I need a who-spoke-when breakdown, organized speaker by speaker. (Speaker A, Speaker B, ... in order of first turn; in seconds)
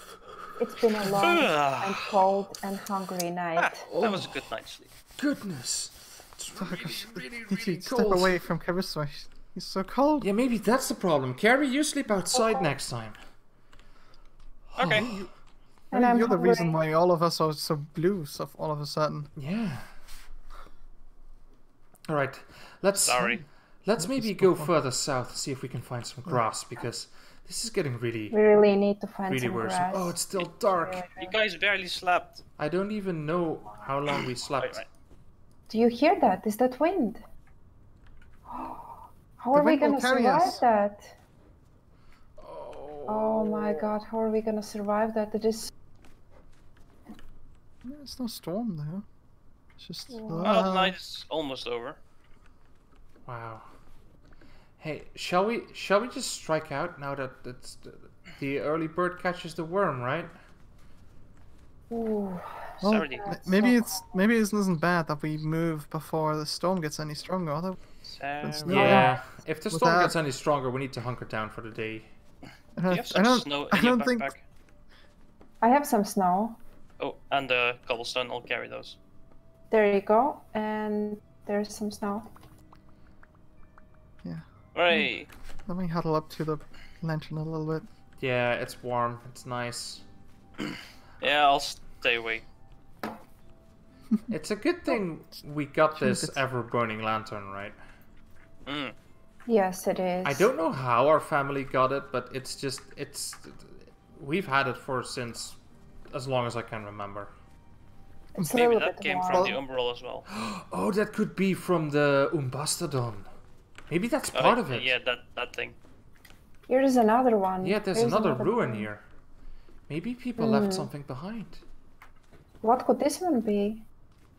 Speaker A: 0.6-3.9, 12.3-12.7, 15.9-16.8, 28.3-31.3, 35.7-37.2, 38.5-41.1, 43.1-45.7, 50.1-50.6, 61.9-64.1, 75.6-76.6, 79.7-82.3, 99.5-100.5, 108.3-109.6, 116.7-118.9, 120.4-120.9, 122.6-123.8
Speaker B: 1.2-2.1, 3.6-4.9, 14.8-15.1, 23.0-23.4, 31.2-32.4, 34.6-34.9, 50.4-52.0, 62.8-63.5, 68.0-69.1, 72.9-74.4, 77.0-79.0, 84.7-85.3, 91.2-92.4, 98.7-98.9, 108.5-110.2, 114.3-115.8
Speaker C: 3.9-4.5, 5.2-8.4, 10.2-13.2, 14.7-15.3, 19.4-19.9, 22.1-28.4, 29.3-31.1, 32.6-34.8, 42.4-43.9, 53.2-53.7, 54.8-60.3, 68.7-72.1, 88.2-90.0, 94.3-97.8, 100.2-105.6, 106.1-107.3, 110.3-113.2, 113.9-114.9, 117.6-119.0, 119.9-121.6
Speaker D: 6.5-10.3, 15.0-15.3, 15.9-19.3, 24.0-24.7, 39.5-40.6, 47.8-49.0, 49.8-51.0, 62.8-67.8, 68.4-70.1, 72.8-74.3, 84.2-85.1, 85.7-87.8, 95.9-96.4